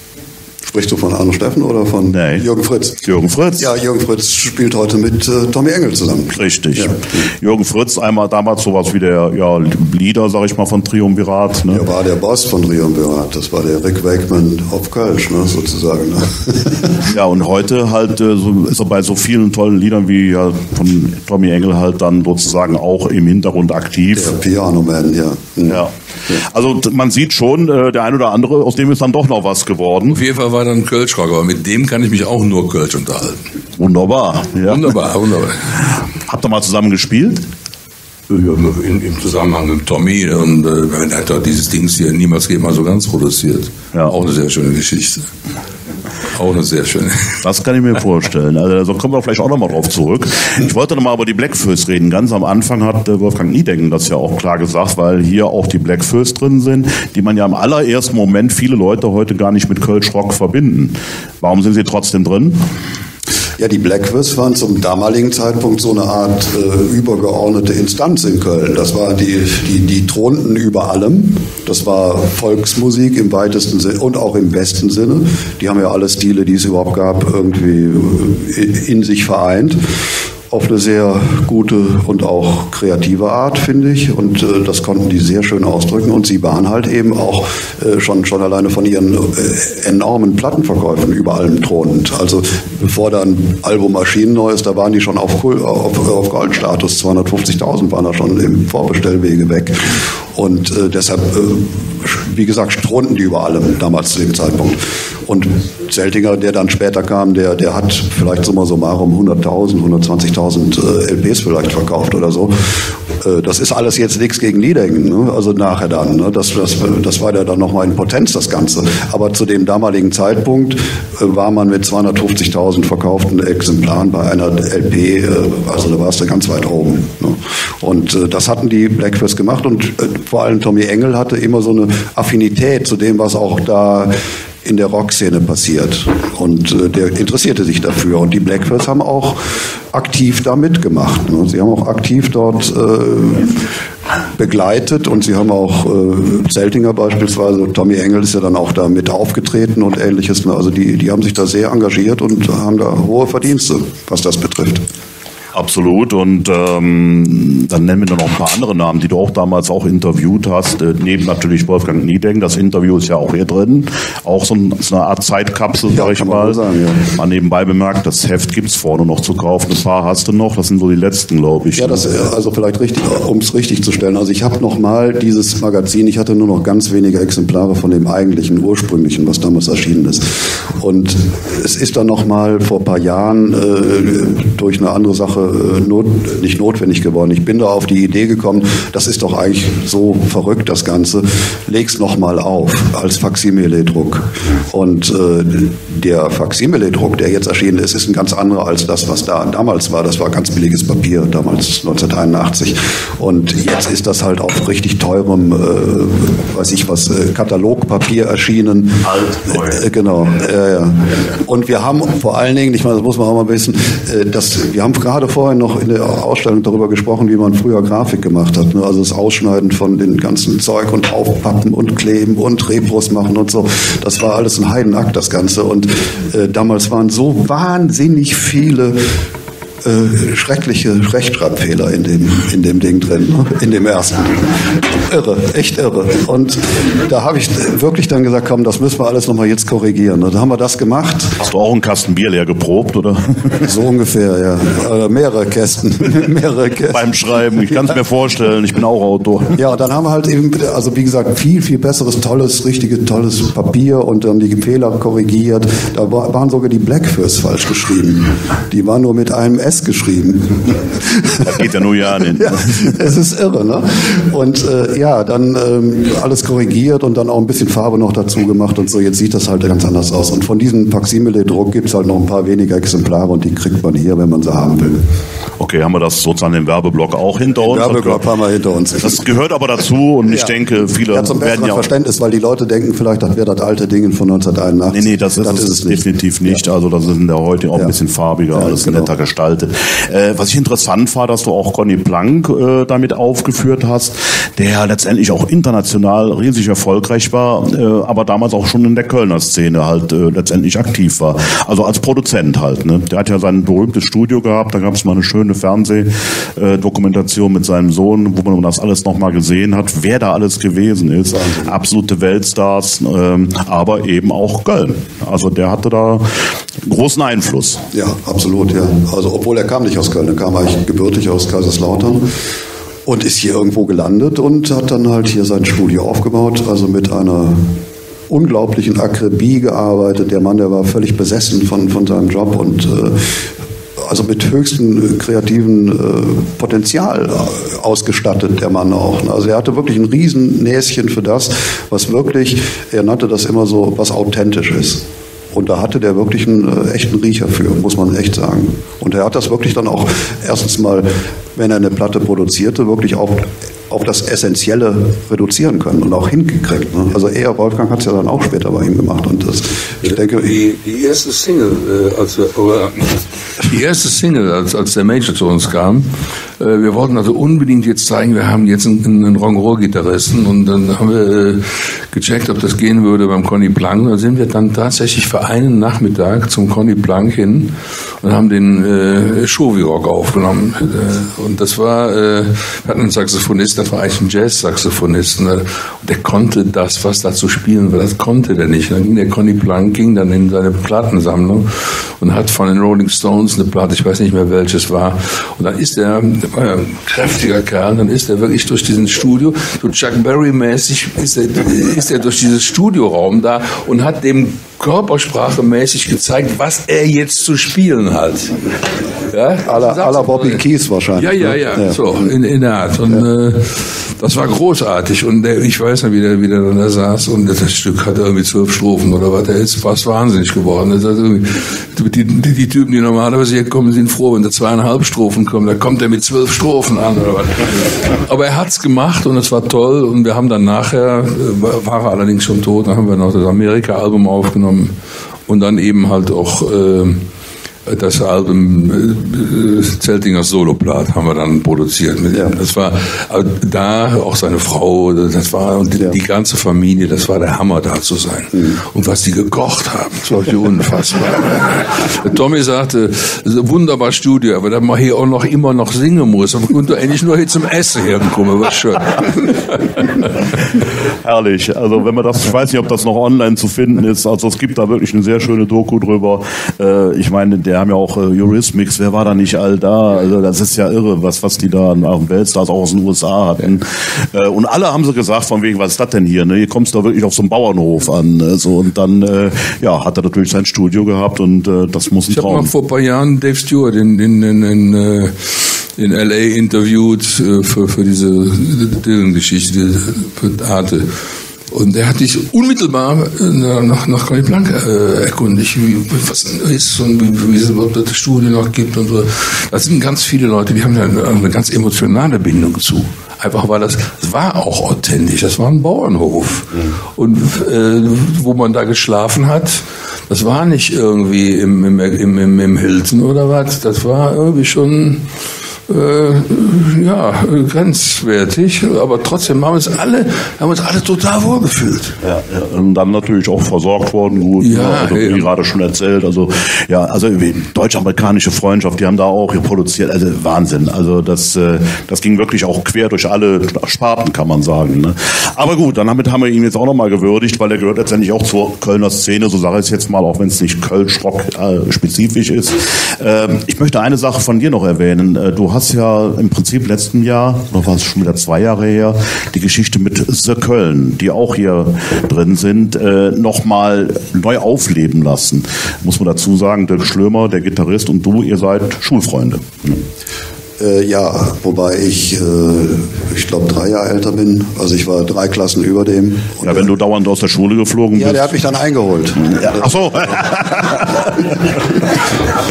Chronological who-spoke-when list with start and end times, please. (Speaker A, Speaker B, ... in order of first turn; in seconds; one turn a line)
Speaker A: 0.6-3.0
Speaker B: 2.1-2.5
Speaker B: 3.0-3.7
Speaker A: 3.6-7.0
Speaker B: 6.3-11.8
Speaker A: 11.7-17.1
Speaker B: 17.1-24.4
Speaker A: 24.1-26.4
Speaker B: 25.7-30.2
Speaker C: 30.1-33.4
Speaker B: 33.8-34.9
Speaker C: 34.7-35.7
Speaker B: 36.3-37.4
Speaker C: 38.3-45.3
Speaker C: 46.3-47.4
Speaker B: 47.4-62.6
Speaker A: 63.6-79.8
Speaker A: 80.5-112.5
Speaker A: 113.2-143.6
Speaker A: 144.4-154.8
Speaker B: 155.5-172.1
Speaker A: 165.9-167.1
Speaker A: 171.8-229.0
Speaker B: 209.0-209.8
Speaker A: 229.8-241.3
Speaker B: 241.4-243.7
Speaker A: 243.6-248.0
Speaker B: 246.9-249.6
Speaker A: 249.5-261.6
Speaker B: 261.4-263.0
Speaker A: 262.2-275.0
Speaker B: 275.6-278.2
Speaker A: 277.6-279.2
Speaker B: 279.0-281.9
Speaker A: 280.3-286.6
Speaker B: 284.9-317.8
Speaker A: 288.5-289.1
Speaker A: 311.3-311.8
Speaker A: 317.9-322.3
Speaker A: 323.0-327.7
Speaker A: 328.3-333.4
Speaker A: 334.0-360.5
Speaker C: 360.0-408.6
Speaker C: 409.3-410.6
Speaker A: 409.6-412.0
Speaker C: 411.1-434.9
Speaker C: 435.5-437.2
Speaker C: 437.9-460.3
Speaker A: 448.5-448.8
Speaker B: 460.8-482.7
Speaker C: 482.3-491.1
Speaker C: 491.7-515.3
Speaker C: 515.9-522.2
Speaker B: 522.2-560.0
Speaker C: 524.6-525.5
Speaker A: 560.8-566.9
Speaker B: 566.6-568.6
Speaker A: 568.1-569.9
Speaker B: 569.4-572.2